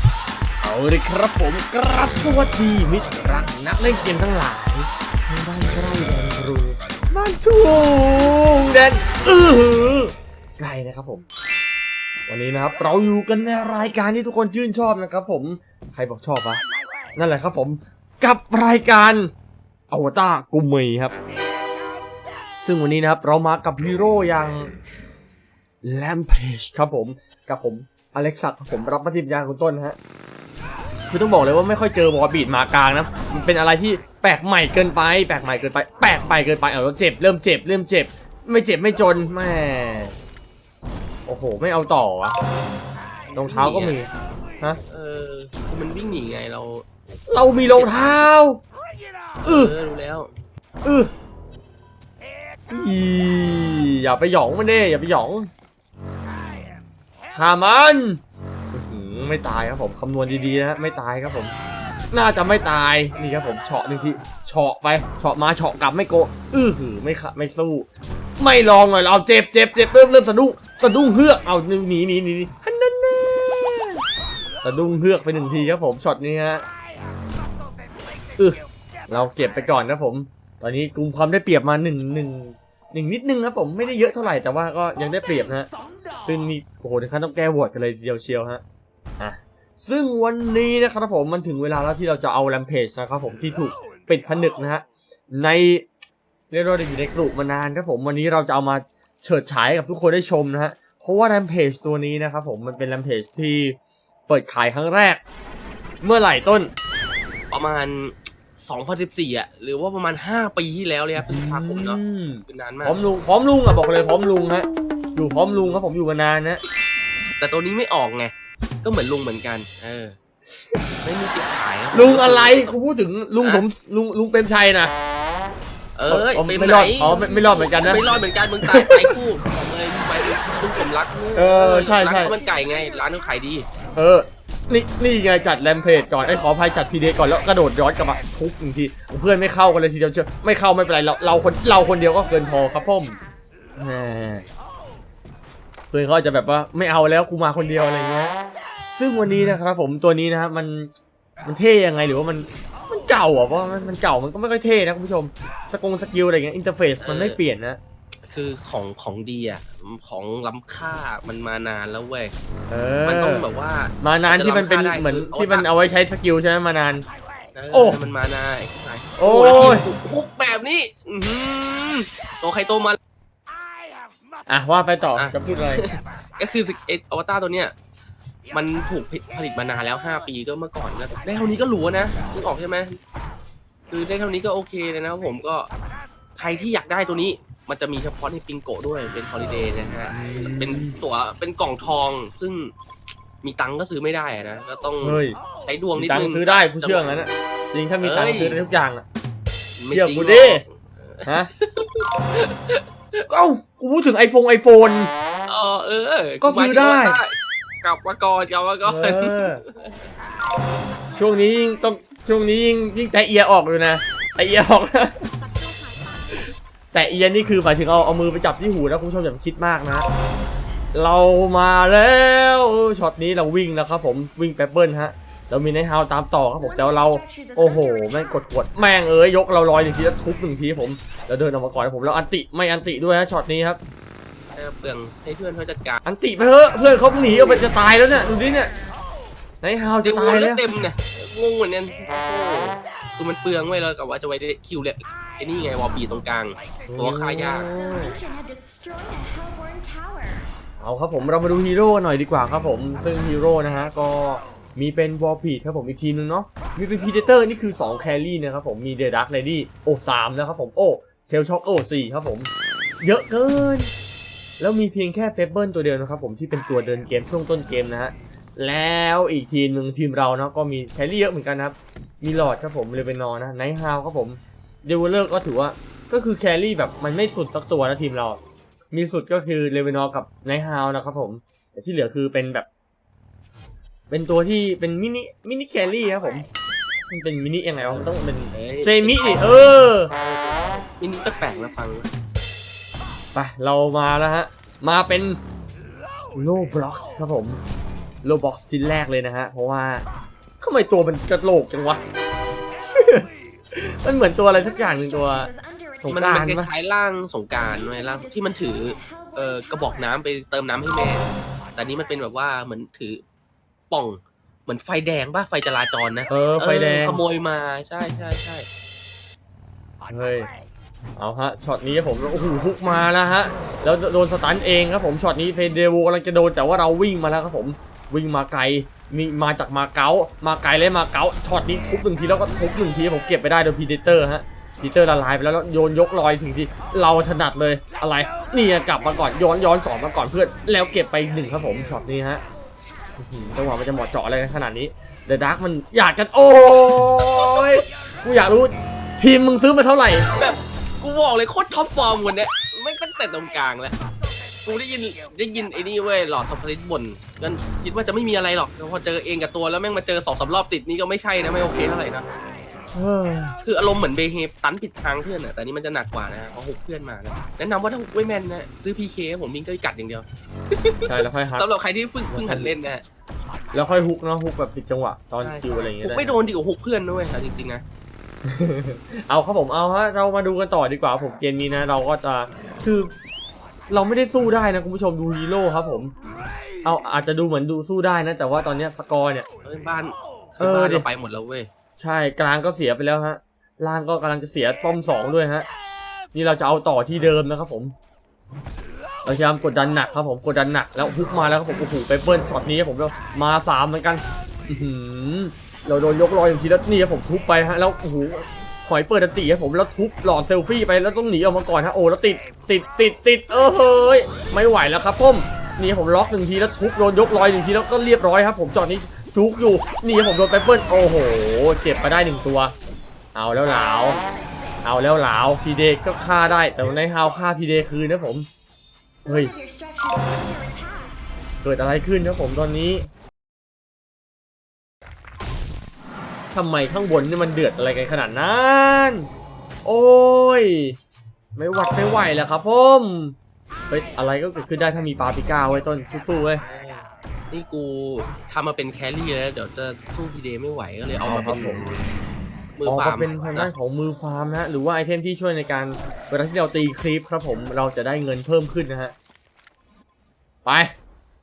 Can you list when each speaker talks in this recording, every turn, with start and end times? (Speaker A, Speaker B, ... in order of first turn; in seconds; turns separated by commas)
Speaker A: 0.6-11.3, Speaker A: 12.3-16.6, Speaker A: 17.2-19.3, Speaker A: 19.9-21.1, Speaker A: 22.6-24.7, Speaker A: 25.8-30.0, Speaker A: 31.1-40.1, Speaker A: 41.3-42.4, Speaker A: 43.4-44.8, Speaker B: 43.4-44.0, Speaker B: 44.9-46.9, Speaker A: 47.3-48.6, Speaker B: 47.7-48.2, Speaker B: 49.4-50.3, Speaker A: 49.4-49.7, Speaker A: 50.8-51.1, Speaker A: 52.7-55.5, Speaker A: 57.3-58.2, Speaker A: 58.7-61.5, Speaker A: 62.1-67.9, Speaker A: 68.4-74.0, Speaker A: 74.6-76.6, Speaker A: 78.4-85.7, Speaker A: 86.2-88.6, Speaker A: 89.2-95.8, Speaker A: 96.5-105.2, Speaker A: 106.0-106.7, Speaker B: 107.5-113.0, Speaker A: 111.2-116.6, Speaker B: 117.4-120.2, Speaker B: 121.0-122.8, Speaker A: 121.9-124.9, Speaker B: 123.4-123.7, Speaker B: 126.0-133.7, Speaker A: 126.1-128.0, Speaker C: 127.0-128.0, Speaker A: 128.6-129.2, Speaker A: 131.3-132.3, Speaker C: 131.7-133.3, Speaker A: 134.0-143.2, Speaker C: 141.9-143.3, Speaker A: 143.8-144.5, Speaker A: 145.9-148.4, Speaker A: 148.9-150.9, Speaker A: 151.4-157.8, Speaker B: 157.0-157.4, Speaker B: 158.3-162.3, Speaker A: 162.7-163.5, Speaker B: 163.1-165.7, Speaker A: 164.0-167.1, Speaker B: 167.6-173.0, Speaker A: 167.7-168.0, Speaker A: 169.2-169.9, Speaker A: 174.5-175.9, Speaker B: 175.2-177.7, Speaker B: 178.5-183.0, Speaker B: 183.9-185.7, Speaker B: 186.4-192.7, Speaker A: 190.1-191.0, Speaker B: 193.4-197.2, Speaker A: 195.0-195.4, Speaker A: 196.0-199.1, Speaker B: 198.0-198.6, Speaker B: 199.8-203.2, Speaker A: 199.9-200.6, Speaker A: 203.3-205.1, Speaker B: 205.5-209.9, Speaker A: 206.4-207.2, Speaker A: 208.8-209.6, Speaker A: 211.1-215.2, Speaker C: 211.1-211.5, Speaker C: 215.3-216.5, Speaker A: 216.9-220.1, Speaker A: 220.9-233.8, Speaker C: 226.6-228.4, Speaker B: 234.5-236.0, Speaker A: 236.1-238.7, Speaker A: 239.6-240.6, Speaker B: 240.0-247.7, Speaker A: 246.9-248.1, Speaker C: 247.1-250.5, Speaker A: 250.8-262.5, Speaker A: 263.0-263.9, Speaker A: 264.6-278.4, Speaker A: 278.9-282.7, Speaker A: 284.1-286.5, Speaker A: 287.1-290.1, Speaker B: 287.8-292.1, Speaker A: 293.3-295.4, Speaker A: 296.4-297.6, Speaker A: 298.2-300.1, Speaker A: 300.6-302.0, Speaker A: 302.9-305.5, Speaker C: 304.5-306.6, Speaker A: 306.0-306.7, Speaker B: 306.1-313.2, Speaker C: 307.5-310.2, Speaker B: 313.9-318.7, Speaker A: 316.3-317.2, Speaker A: 320.1-320.5, Speaker A: 321.2-342.4, Speaker C: 342.8-343.2, Speaker A: 343.2-350.3, Speaker B: 350.4-353.9, Speaker B: 354.6-362.3, Speaker A: 362.9-363.6, Speaker B: 363.6-373.0, Speaker A: 371.1-371.7, Speaker A: 372.3-372.7, Speaker A: 373.7-376.4, Speaker B: 375.4-377.8, Speaker A: 378.4-383.1, Speaker A: 383.9-386.1, Speaker A: 386.8-389.5, Speaker B: 389.6-391.7, Speaker A: 390.6-391.1, Speaker A: 392.0-395.7, Speaker A: 396.3-397.9, Speaker A: 399.2-422.7, Speaker A: 423.4-424.2, Speaker C: 424.2-424.8, Speaker A: 424.8-428.5, Speaker A: 429.3-429.5, Speaker C: 429.3-431.2, Speaker A: 431.6-433.1, Speaker A: 436.5-439.3, Speaker A: 439.9-441.0, Speaker A: 441.6-443.4, Speaker A: 443.9-446.6, Speaker B: 446.6-451.8, Speaker A: 451.2-451.9, Speaker B: 452.8-453.7, Speaker A: 452.8-459.1, Speaker A: 460.6-460.9